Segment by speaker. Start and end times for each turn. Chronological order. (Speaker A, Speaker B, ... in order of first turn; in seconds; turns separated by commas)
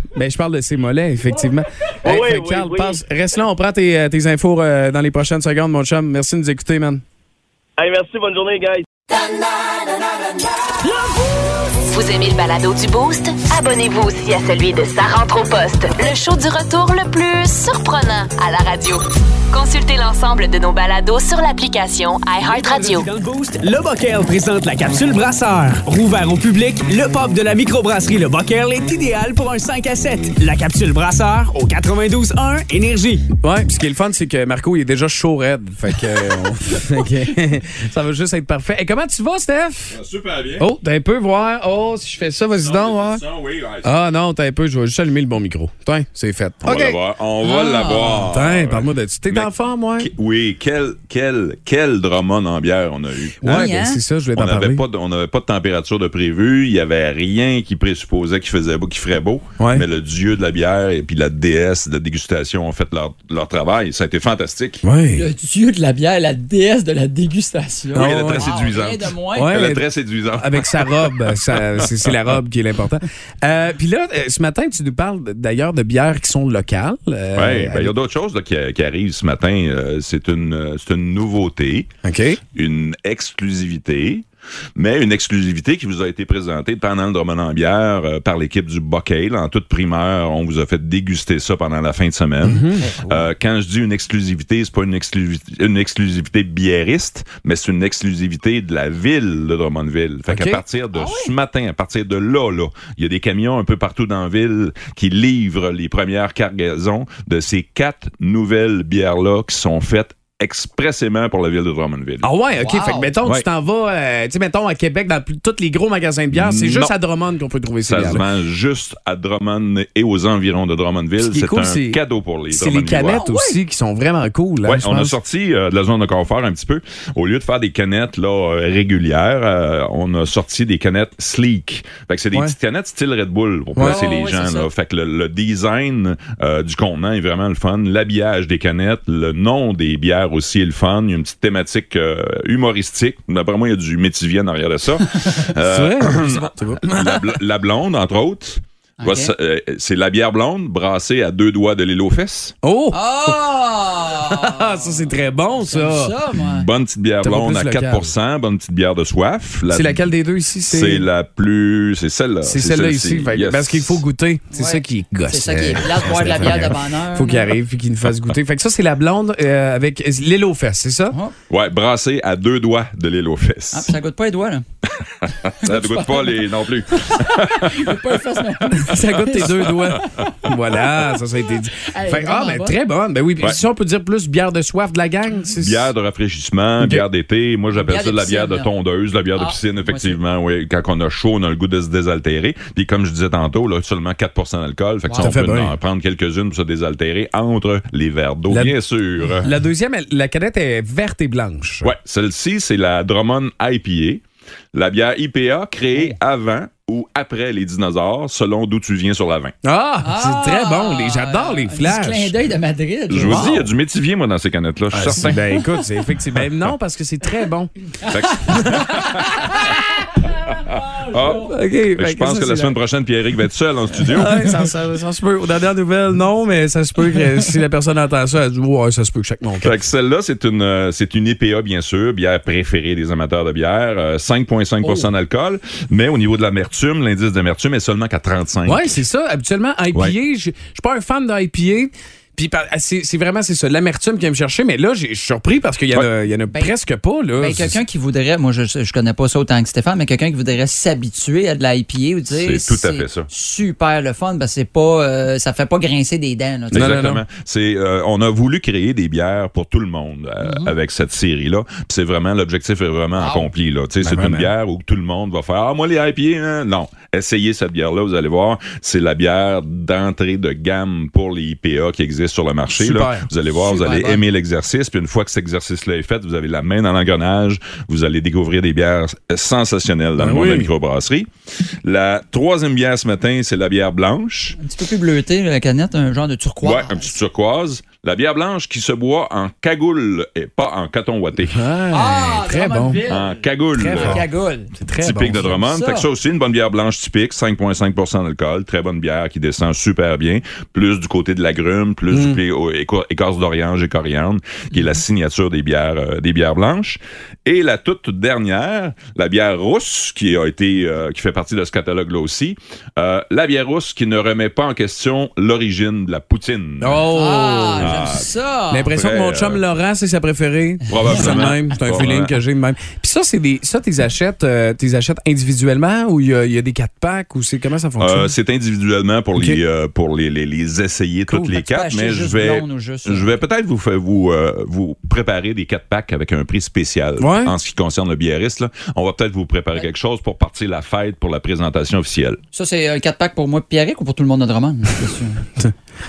Speaker A: 0.1-7.0, Speaker B: 2.0-3.0, Speaker B: 7.8-8.9, Speaker C: 11.9-23.1, Speaker D: 22.4-33.3, Speaker A: 33.4-40.0, Speaker E: 39.9-40.7, Speaker A: 40.6-43.2, Speaker E: 42.5-43.9, Speaker A: 43.8-47.0, Speaker E: 46.6-53.7, Speaker F: 47.4-48.3, Speaker A: 48.3-50.1, Speaker A: 53.4-54.8, Speaker F: 53.4-54.0, Speaker E: 54.4-64.8, Speaker A: 59.6-59.9, Speaker A: 64.8-65.3, Speaker F: 65.1-69.7, Speaker E: 67.9-72.1, Speaker A: 68.0-68.5, Speaker A: 69.3-77.9, Speaker E: 77.3-81.9, Speaker A: 82.0-82.4, Speaker E: 82.5-84.3, Speaker E: 84.8-112.3, Speaker A: 92.4-92.9, Speaker F: 92.8-93.2, Speaker A: 100.3-100.6, Speaker F: 100.9-101.3, Speaker A: 112.2-118.2, Speaker F: 112.6-113.1, Speaker E: 116.3-116.9, Speaker E: 117.8-123.2, Speaker A: 121.2-125.2, Speaker F: 123.0-123.6, Speaker E: 124.6-152.5, Speaker A: 133.8-134.0, Speaker F: 133.8-134.7, Speaker A: 145.6-147.3, Speaker F: 149.0-149.3, Speaker A: 152.6-153.4, Speaker F: 152.9-155.0, Speaker A: 154.2-156.2, Speaker F: 155.6-156.7, Speaker E: 156.4-160.0, Speaker A: 157.2-158.1, Speaker A: 159.7-161.1, Speaker E: 160.7-164.0, Speaker A: 162.4-171.2, Speaker F: 164.5-167.5, Speaker E: 171.5-173.9, Speaker F: 173.7-174.6, Speaker E: 175.2-178.0, Speaker F: 175.4-181.1, Speaker A: 178.7-185.9, Speaker E: 179.3-179.8, Speaker F: 181.8-182.8, Speaker E: 185.6-199.5, Speaker A: 186.8-187.1, Speaker F: 187.7-188.7, Speaker F: 189.4-190.2, Speaker F: 195.1-195.4, Speaker A: 195.2-195.8, Speaker A: 198.5-198.8, Speaker A: 199.4-201.9, Speaker E: 201.8-209.6, Speaker A: 209.6-212.3, Speaker F: 210.0-213.6, Speaker E: 213.1-215.7, Speaker A: 213.1-213.7, Speaker A: 214.9-217.7, Speaker E: 218.0-219.6, Speaker F: 218.1-219.6, Speaker A: 218.5-219.8, Speaker E: 220.6-224.5, Speaker F: 221.1-221.3, Speaker A: 221.3-222.8, Speaker A: 224.1-229.8, Speaker E: 229.6-239.0, Speaker A: 234.8-235.1, Speaker A: 238.7-247.8, Speaker F: 247.4-257.0, Speaker E: 252.3-253.3, Speaker E: 256.7-281.3, Speaker A: 256.7-257.2, Speaker F: 260.4-260.7, Speaker F: 263.1-263.5, Speaker A: 264.0-264.5, Speaker A: 272.7-273.3, Speaker F: 273.5-274.2, Speaker A: 280.2-280.7, Speaker E: 281.8-284.6, Speaker F: 284.6-287.2, Speaker E: 286.6-291.7, Speaker A: 291.4-293.0, Speaker F: 291.9-294.7, Speaker E: 293.0-294.2, Speaker A: 293.7-295.6, Speaker E: 295.0-317.1, Speaker F: 295.5-296.1, Speaker A: 302.1-302.4, Speaker A: 316.8-318.0, Speaker F: 317.1-318.9, Speaker E: 317.8-318.3, Speaker A: 318.7-328.3, Speaker E: 318.9-319.6, Speaker E: 320.9-322.4, Speaker E: 328.0-342.4, Speaker F: 331.3-333.4, Speaker A: 337.2-337.5, Speaker F: 342.5-345.5